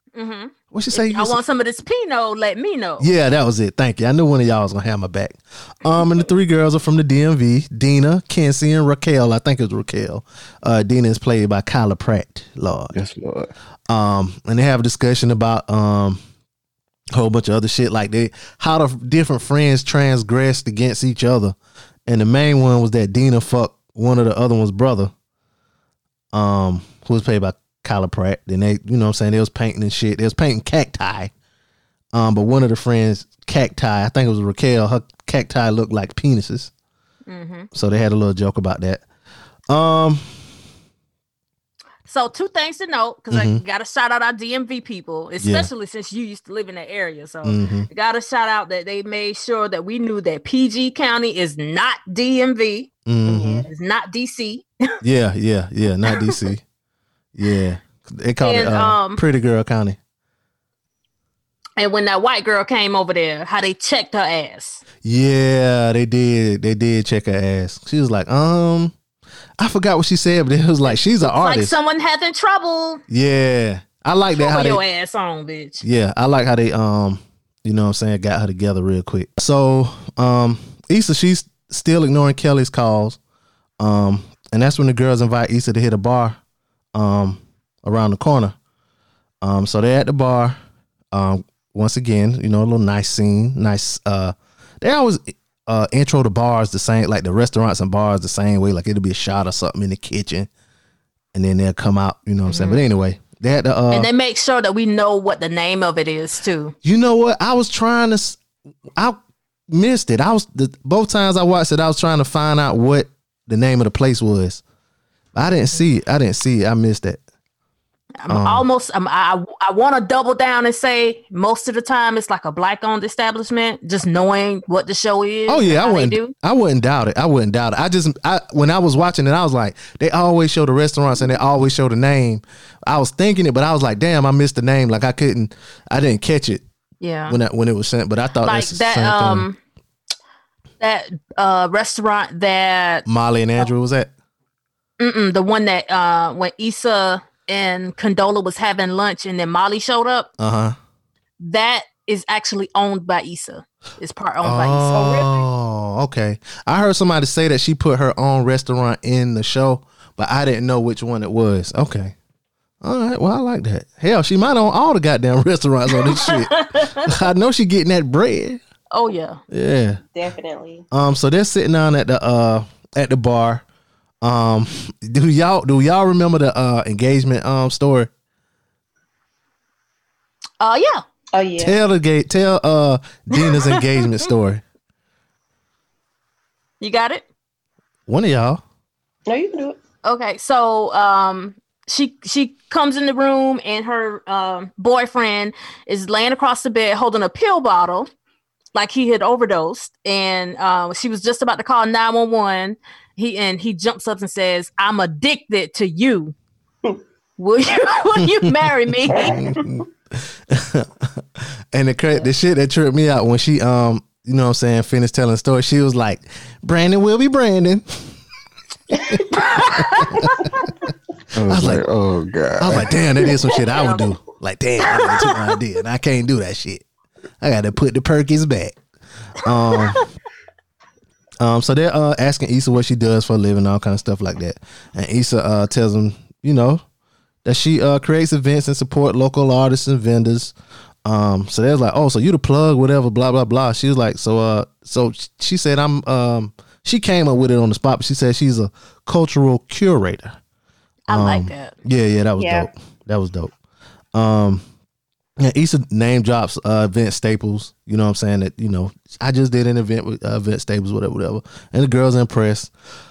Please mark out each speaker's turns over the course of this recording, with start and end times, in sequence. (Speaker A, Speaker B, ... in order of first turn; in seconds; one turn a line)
Speaker A: 0.1-3.1
Speaker B: 0.7-1.4
Speaker B: 3.0-12.9
Speaker C: 12.9-13.5
Speaker B: 13.9-16.2
Speaker B: 17.1-21.6
Speaker B: 22.1-25.1
Speaker B: 26.3-31.3
Speaker B: 32.1-36.7
Speaker A: 37.3-37.7
Speaker B: 37.7-39.0
Speaker B: 39.7-40.5
Speaker A: 42.0-52.9
Speaker B: 43.3-43.6
Speaker B: 45.4-45.7
Speaker B: 47.4-47.9
Speaker B: 53.0-53.7
Speaker D: 53.2-53.7
Speaker A: 53.7-54.6
Speaker B: 55.0-56.6
Speaker B: 57.3-60.0
Speaker A: 58.4-59.2
Speaker A: 61.8-64.8
Speaker B: 65.0-69.0
Speaker B: 69.6-71.8
Speaker A: 70.8-73.0
Speaker B: 73.1-74.8
Speaker A: 74.3-75.8
Speaker B: 75.8-83.2
Speaker B: 83.8-86.4
Speaker B: 86.9-88.6
Speaker B: 89.4-90.6
Speaker B: 91.1-100.5
Speaker B: 101.3-104.1
Speaker A: 102.5-102.8
Speaker A: 103.9-106.7
Speaker B: 106.8-108.4
Speaker B: 109.0-114.6
Speaker B: 115.3-117.2
Speaker A: 118.2-126.3
Speaker B: 118.3-118.7
Speaker B: 125.5-136.6
Speaker A: 137.0-137.4
Speaker B: 137.3-139.5
Speaker A: 138.4-139.6
Speaker A: 140.8-143.0
Speaker B: 143.1-144.1
Speaker A: 145.0-150.3
Speaker B: 150.4-150.8
Speaker A: 151.4-155.3
Speaker B: 154.4-162.2
Speaker D: 154.9-155.3
Speaker B: 162.8-168.6
Speaker A: 165.9-167.0
Speaker A: 168.9-169.4
Speaker B: 169.5-170.0
Speaker D: 170.1-170.8
Speaker B: 170.9-173.6
Speaker B: 174.2-178.1
Speaker A: 180.6-181.0
Speaker D: 181.3-181.8
Speaker B: 181.6-184.6
Speaker A: 186.8-187.2
Speaker B: 188.1-188.6
Speaker D: 189.3-189.8
Speaker A: 190.0-198.1
Speaker A: 198.7-206.3
Speaker A: 207.4-209.3
Speaker B: 208.4-218.2
Speaker B: 218.9-220.5
Speaker A: 219.3-220.0
Speaker C: 221.3-223.0
Speaker B: 221.5-221.8
Speaker B: 222.6-226.8
Speaker A: 223.7-224.1
Speaker A: 224.9-225.3
Speaker B: 227.4-228.8
Speaker B: 229.4-230.0
Speaker B: 231.4-236.8
Speaker B: 237.4-250.4
Speaker A: 251.1-251.8
Speaker B: 251.1-253.5
Speaker D: 252.4-252.7
Speaker B: 254.1-254.6
Speaker B: 255.4-262.7